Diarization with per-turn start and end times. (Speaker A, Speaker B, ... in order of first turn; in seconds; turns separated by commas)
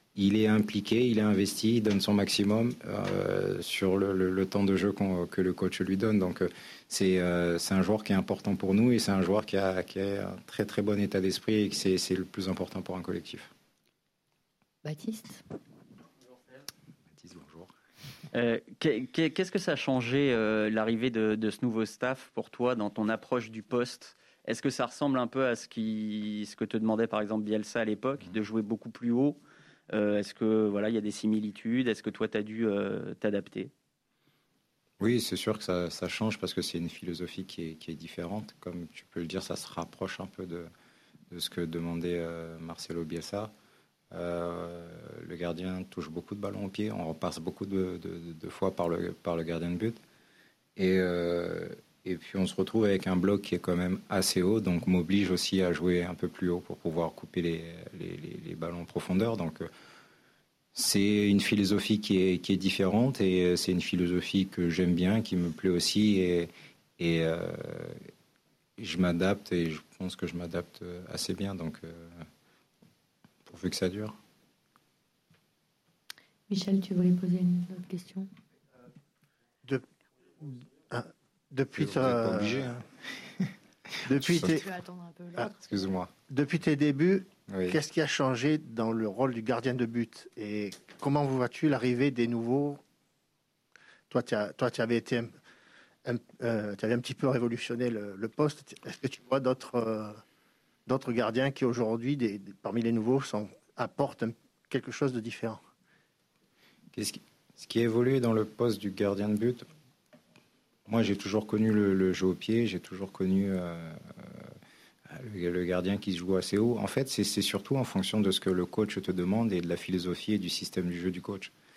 Speaker A: 0.1-13.5, Speaker B: 14.8-15.4, Speaker A: 17.1-17.7, Speaker C: 18.3-33.7, Speaker A: 35.0-40.7, Speaker A: 41.3-43.5, Speaker A: 44.1-50.0, Speaker A: 50.8-59.7, Speaker A: 60.8-68.0, Speaker A: 68.8-72.1, Speaker A: 73.5-74.1, Speaker B: 76.5-78.3, Speaker D: 80.4-82.7, Speaker A: 81.8-82.8, Speaker D: 84.1-84.7, Speaker A: 84.1-84.6, Speaker B: 84.2-85.6, Speaker A: 85.6-86.1, Speaker D: 86.3-92.8, Speaker A: 87.5-87.8, Speaker D: 94.1-95.3, Speaker D: 96.0-100.1, Speaker D: 100.9-105.6, Speaker A: 106.9-109.6, Speaker A: 110.9-114.5, Speaker A: 115.1-121.5